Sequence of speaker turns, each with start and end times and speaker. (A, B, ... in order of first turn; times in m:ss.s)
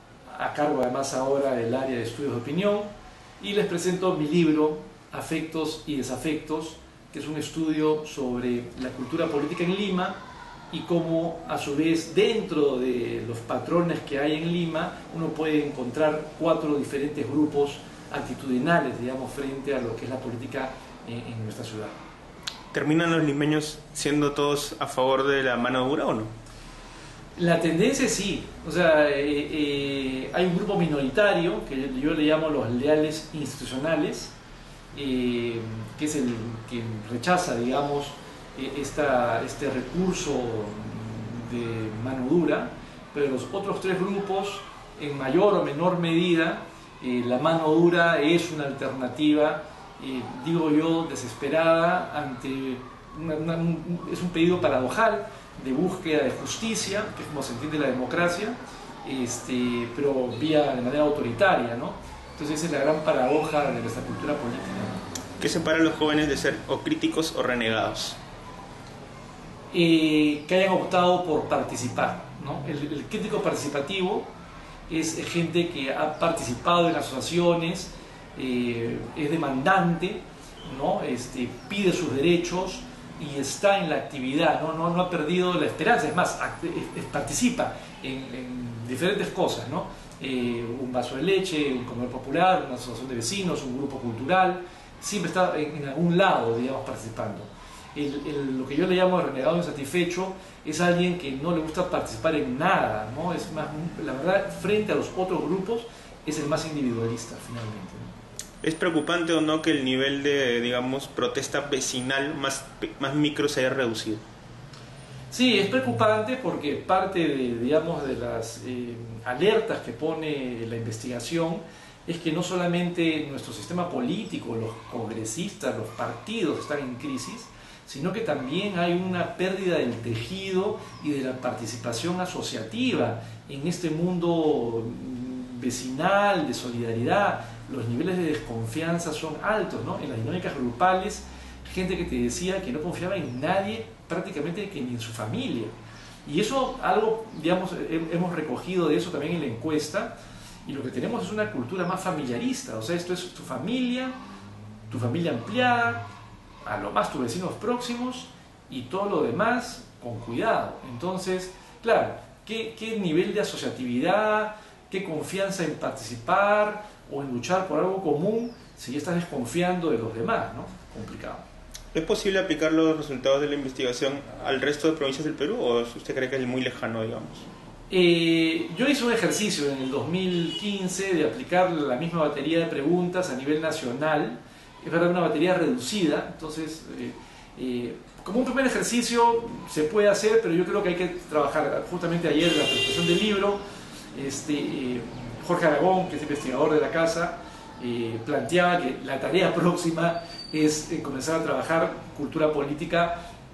0:00.3-0:10.2 A
0:10.7-0:22.0 A
0:22.7-0:26.3 B
0:27.4-0:34.4 A
0:34.9-1:05.0 A
1:05.4-1:08.2 B
1:09.7-1:14.3 A
1:14.9-1:48.1 A
1:48.6-1:54.2 B
1:55.3-2:25.7 A
2:26.2-2:30.2 A
2:30.7-2:34.2 A
2:34.9-2:36.1 A
2:36.6-2:51.4 A
2:51.9-2:57.5 B
2:57.9-3:13.6 A
3:14.2-3:23.2 A